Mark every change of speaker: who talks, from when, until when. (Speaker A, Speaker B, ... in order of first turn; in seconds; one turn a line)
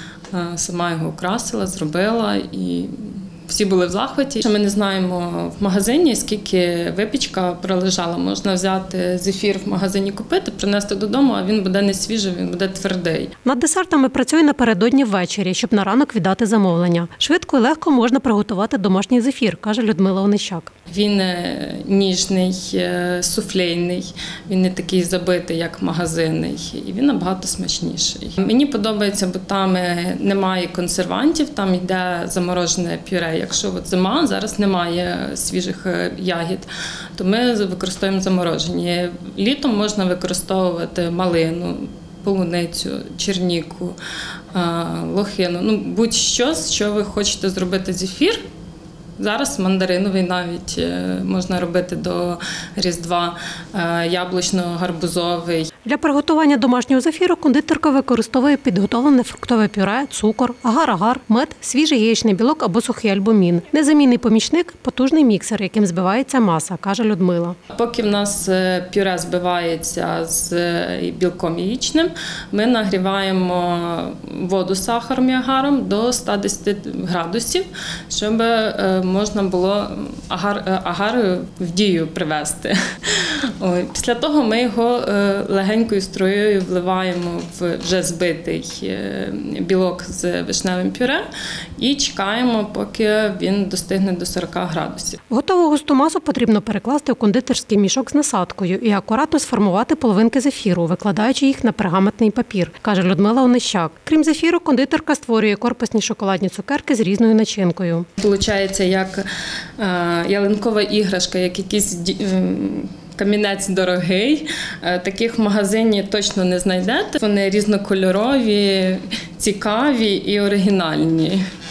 Speaker A: 0.3-13.3
Speaker B: 13.4-20.7
Speaker A: 20.9-44.0
Speaker A: 44.5-48.4
Speaker A: 49.2-55.7
Speaker B: 55.8-67.6
Speaker A: 67.7-91.2
Speaker A: 91.8-95.2
Speaker B: 95.3-108.1
Speaker A: 108.2-109.2
Speaker A: 109.8-121.4